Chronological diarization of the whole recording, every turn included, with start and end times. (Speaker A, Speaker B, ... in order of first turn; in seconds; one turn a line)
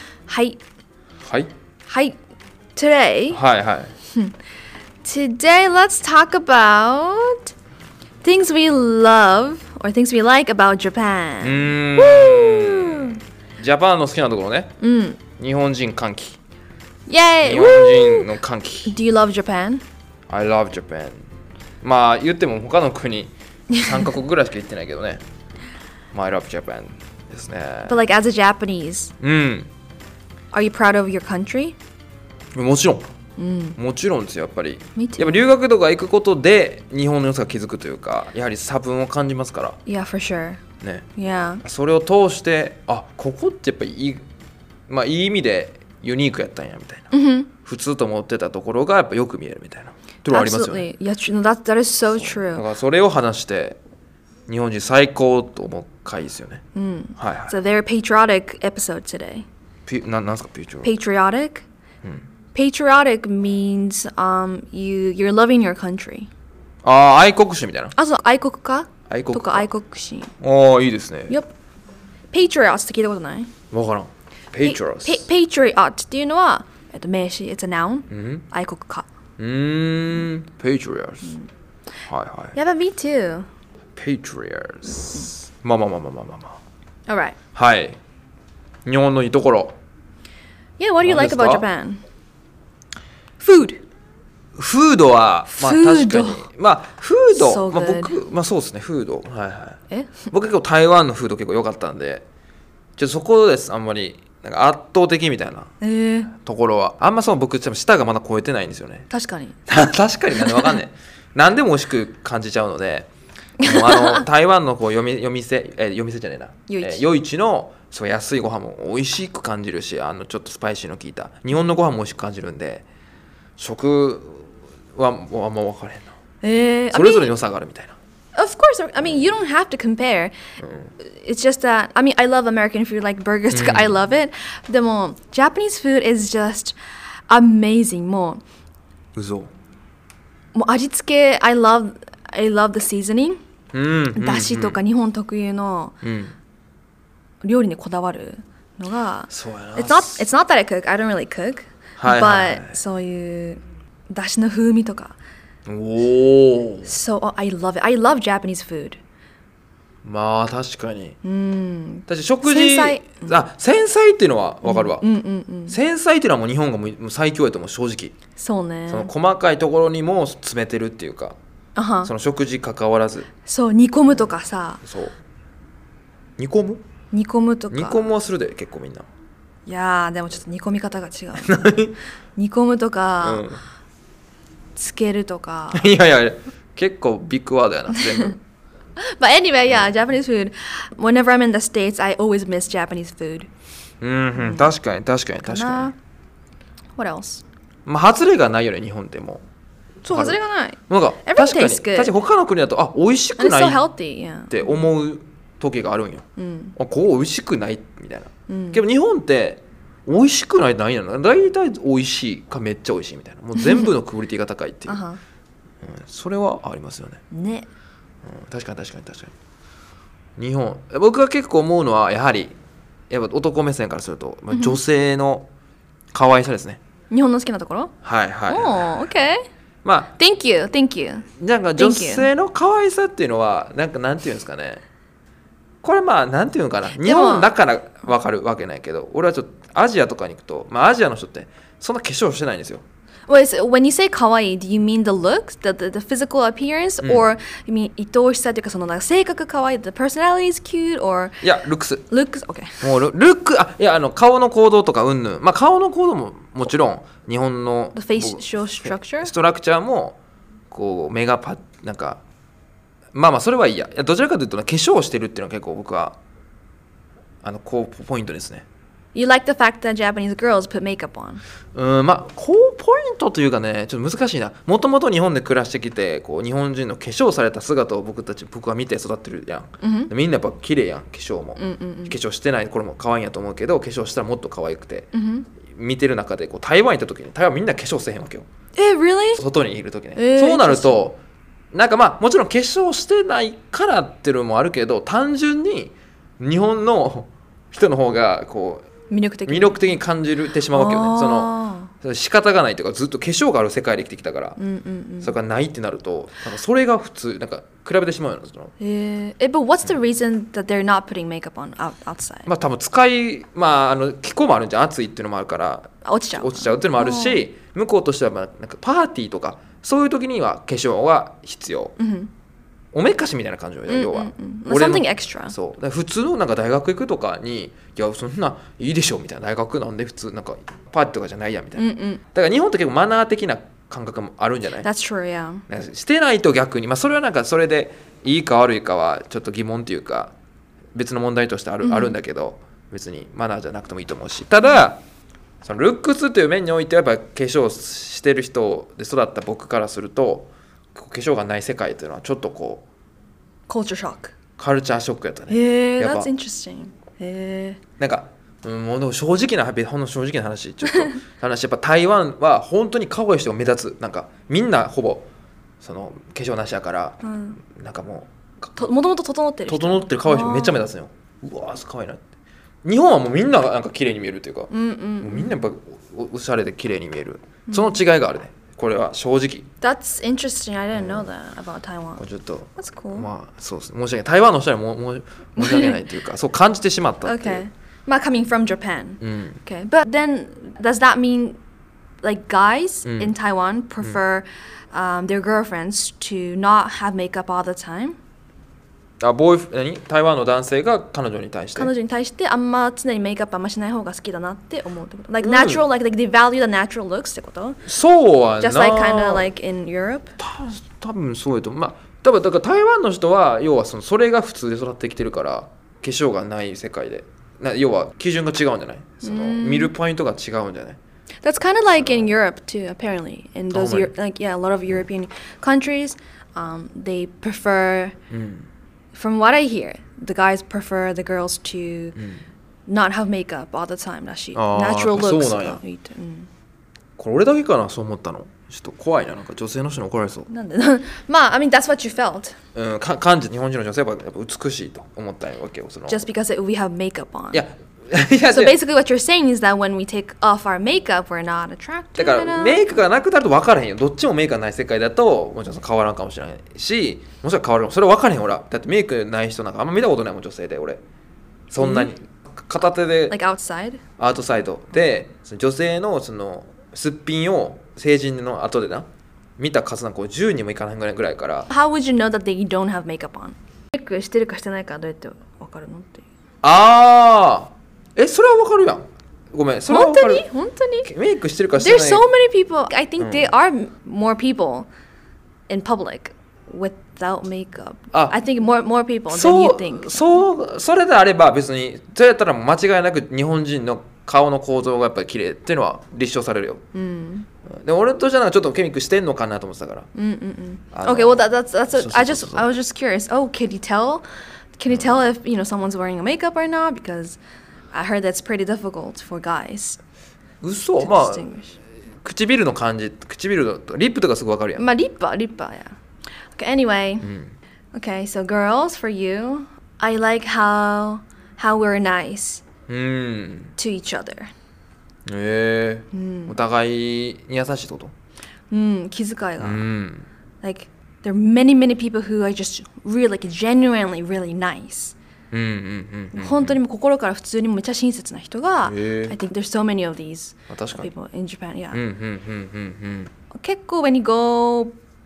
Speaker A: 0.3-0.6
Speaker B: 1.2-1.5
Speaker A: 1.9-2.2
Speaker A: 2.8-3.4
Speaker B: 3.3-3.9
Speaker A: 5.0-7.5
Speaker A: 8.2-13.2
Speaker B: 11.4-14.7
Speaker A: 14.8-15.2
Speaker B: 15.4-16.4
Speaker A: 17.1-18.3
Speaker B: 17.4-18.9
Speaker A: 18.9-19.8
Speaker B: 20.3-21.2
Speaker B: 21.8-25.2
Speaker B: 26.1-28.0
Speaker A: 27.9-29.1
Speaker B: 29.2-29.7
Speaker A: 30.5-31.8
Speaker B: 32.5-33.1
Speaker A: 33.4-33.8
Speaker B: 33.8-39.8
Speaker A: 34.9-35.5
Speaker A: 39.9-40.6
Speaker B: 40.8-41.0
Speaker A: 41.1-41.6
Speaker B: 41.6-44.2
Speaker B: 44.9-47.1
Speaker A: 47.1-47.5
Speaker B: 47.6-50.9
Speaker A: 50.3-52.6
Speaker B: 52.1-53.8
Speaker B: 54.5-56.6
Speaker A: 56.7-59.5
Speaker B: 57.2-57.5
Speaker B: 59.9-60.9
Speaker A: 60.8-61.6
Speaker A: 62.5-66.3
Speaker B: 66.8-67.9
Speaker A: 68.0-70.3
Speaker B: 69.1-69.7
Speaker B: 70.4-71.4
Speaker A: 72.3-73.5
Speaker B: 73.7-75.2
Speaker A: 74.6-79.0
Speaker B: 78.1-78.4
Speaker B: 79.4-81.3
Speaker B: 82.1-82.5
Speaker A: 82.5-83.5
Speaker B: 84.0-86.6
Speaker A: 87.1-87.4
Speaker B: 87.5-88.0
Speaker B: 88.8-89.8
Speaker A: 90.8-92.0
Speaker B: 91.0-91.7
Speaker A: 93.4-93.8
Speaker B: 94.5-102.2
Speaker A: 95.5-96.5
Speaker A: 97.3-98.1
Speaker A: 99.9-100.2
Speaker B: 103.0-105.7
Speaker A: 105.8-106.3
Speaker B: 106.3-109.1
Speaker A: 109.1-109.6
Speaker B: 109.7-113.1
Speaker A: 110.4-110.7
Speaker A: 113.6-114.2
Speaker B: 113.6-122.8
Speaker A: 116.7-117.0
Speaker B: 123.6-126.1
Speaker A: 126.4-127.3
Speaker B: 126.9-128.0
Speaker A: 128.3-130.3
Speaker B: 129.0-129.2
Speaker B: 130.6-130.9
Speaker A: 131.0-136.8
Speaker B: 133.5-134.0
Speaker A: 137.3-138.4
Speaker B: 139.1-139.5
Speaker A: 140.5-143.4
Speaker B: 143.7-144.8
Speaker A: 144.1-145.9
Speaker B: 146.0-146.3
Speaker A: 147.4-155.2
Speaker B: 149.3-150.3
Speaker B: 152.0-152.8
Speaker B: 155.7-156.9
Speaker A: 156.8-159.0
Speaker B: 160.0-161.2
Speaker A: 161.2-163.4
Speaker B: 162.1-165.0
Speaker A: 164.6-165.8
Speaker B: 165.7-168.1
Speaker A: 168.4-169.1
Speaker B: 168.9-171.4
Speaker A: 171.7-172.1
Speaker B: 172.0-173.3
Speaker A: 173.4-174.8
Speaker B: 174.8-175.1
Speaker B: 176.4-176.8
Speaker A: 177.1-178.1
Speaker B: 177.7-179.1
Speaker A: 179.7-181.6
Speaker B: 181.4-181.9
Speaker A: 182.4-183.4
Speaker B: 183.2-183.6
Speaker A: 184.8-185.9
Speaker B: 185.7-188.4
Speaker A: 187.9-188.3
Speaker A: 189.0-193.5
Speaker B: 194.0-195.9
Speaker A: 194.3-194.7
Speaker A: 195.3-195.9
Speaker A: 197.0-197.4
Speaker B: 197.8-199.4
Speaker B: 200.0-200.4
Speaker A: 200.1-202.1
Speaker B: 200.9-203.8
Speaker A: 203.4-204.5
Speaker B: 204.5-206.2
Speaker A: 206.4-206.8
Speaker B: 206.8-215.0
Speaker A: 208.5-208.8
Speaker A: 213.6-213.9
Speaker A: 214.9-215.2
Speaker B: 215.8-217.2
Speaker A: 217.3-217.7
Speaker B: 218.2-219.3
Speaker B: 220.4-222.6
Speaker B: 223.1-225.5
Speaker A: 224.5-224.8
Speaker B: 226.1-226.8
Speaker A: 227.1-227.9
Speaker B: 228.0-229.1
Speaker A: 228.5-229.4
Speaker B: 229.8-230.1
Speaker A: 230.1-232.3
Speaker B: 231.4-234.8
Speaker B: 235.8-242.8
Speaker A: 236.9-237.5
Speaker A: 243.3-251.4
Speaker B: 247.0-247.3
Speaker B: 251.4-252.0
Speaker A: 252.1-252.9
Speaker B: 252.8-260.2
Speaker A: 257.9-259.3
Speaker B: 260.7-262.2
Speaker B: 263.1-266.2
Speaker B: 267.4-268.6
Speaker A: 269.1-271.4
Speaker B: 271.7-285.1
Speaker A: 279.8-280.1
Speaker A: 281.6-282.2
Speaker A: 285.1-285.5
Speaker B: 285.6-288.4
Speaker A: 288.8-289.4
Speaker B: 289.4-291.2
Speaker A: 290.1-291.0
Speaker B: 291.7-298.9
Speaker A: 299.1-299.8
Speaker B: 299.5-304.6
Speaker A: 300.7-301.9
Speaker A: 304.6-305.3
Speaker B: 305.2-308.7
Speaker A: 308.8-312.5
Speaker B: 312.4-321.9
Speaker A: 316.0-317.4
Speaker A: 322.0-322.3
Speaker B: 322.9-334.9
Speaker A: 323.9-325.5
Speaker A: 331.8-332.2
Speaker A: 334.8-335.6
Speaker B: 335.7-340.3
Speaker B: 340.9-345.0
Speaker A: 341.8-342.2
Speaker B: 345.6-352.8
Speaker A: 353.7-354.3
Speaker B: 354.6-356.3
Speaker A: 355.5-357.8
Speaker B: 358.0-365.3
Speaker A: 360.9-361.1
Speaker B: 365.8-368.9
Speaker A: 367.2-367.6
Speaker A: 368.8-370.8
Speaker B: 369.7-372.2
Speaker B: 372.8-379.7
Speaker A: 374.7-375.6
Speaker A: 377.7-378.0
Speaker A: 379.8-382.2
Speaker B: 380.9-381.3
Speaker B: 382.2-387.6
Speaker A: 382.8-383.3
Speaker A: 385.6-386.0
Speaker A: 387.2-391.6
Speaker B: 389.2-389.6
Speaker A: 392.2-398.2
Speaker B: 393.1-393.3
Speaker B: 399.2-401.9
Speaker A: 401.8-407.8
Speaker B: 405.4-405.8
Speaker B: 407.8-409.5
Speaker A: 408.6-410.4
Speaker B: 410.4-421.0
Speaker A: 419.2-419.9
Speaker A: 421.4-428.1
Speaker B: 421.9-422.3
Speaker B: 423.7-424.1
Speaker B: 428.3-428.7
Speaker A: 429.1-432.2
Speaker B: 432.1-432.4
Speaker A: 432.9-436.5
Speaker B: 434.5-435.8
Speaker B: 437.2-440.5
Speaker A: 440.5-442.6
Speaker B: 442.7-446.2
Speaker A: 446.1-447.6
Speaker B: 447.5-448.8
Speaker A: 448.5-453.0
Speaker B: 452.1-461.0
Speaker B: 461.7-463.4
Speaker A: 461.8-462.1
Speaker A: 463.3-464.0
Speaker B: 464.2-469.1
Speaker B: 469.6-471.7
Speaker A: 471.7-476.2
Speaker B: 476.6-480.4
Speaker A: 479.9-481.1
Speaker B: 481.0-482.3
Speaker A: 481.8-484.9
Speaker B: 483.2-483.5
Speaker A: 485.7-490.4
Speaker B: 489.3-496.8
Speaker A: 496.9-497.5
Speaker B: 497.6-500.1
Speaker A: 500.1-504.2
Speaker B: 500.9-502.7
Speaker A: 504.8-507.4
Speaker B: 504.9-505.2
Speaker A: 507.9-510.0
Speaker B: 510.6-511.4
Speaker A: 511.0-511.8
Speaker B: 512.2-514.8
Speaker A: 514.8-516.0
Speaker A: 516.5-517.3
Speaker B: 517.2-517.5
Speaker A: 517.9-522.6
Speaker B: 522.9-523.7
Speaker A: 523.8-524.5
Speaker B: 525.3-528.1
Speaker A: 526.1-526.6
Speaker A: 528.7-529.8
Speaker B: 529.6-530.3
Speaker A: 530.6-535.1
Speaker B: 535.5-536.8
Speaker A: 536.3-542.0
Speaker B: 538.8-539.4
Speaker B: 540.7-541.1
Speaker B: 541.9-543.3
Speaker A: 543.5-544.9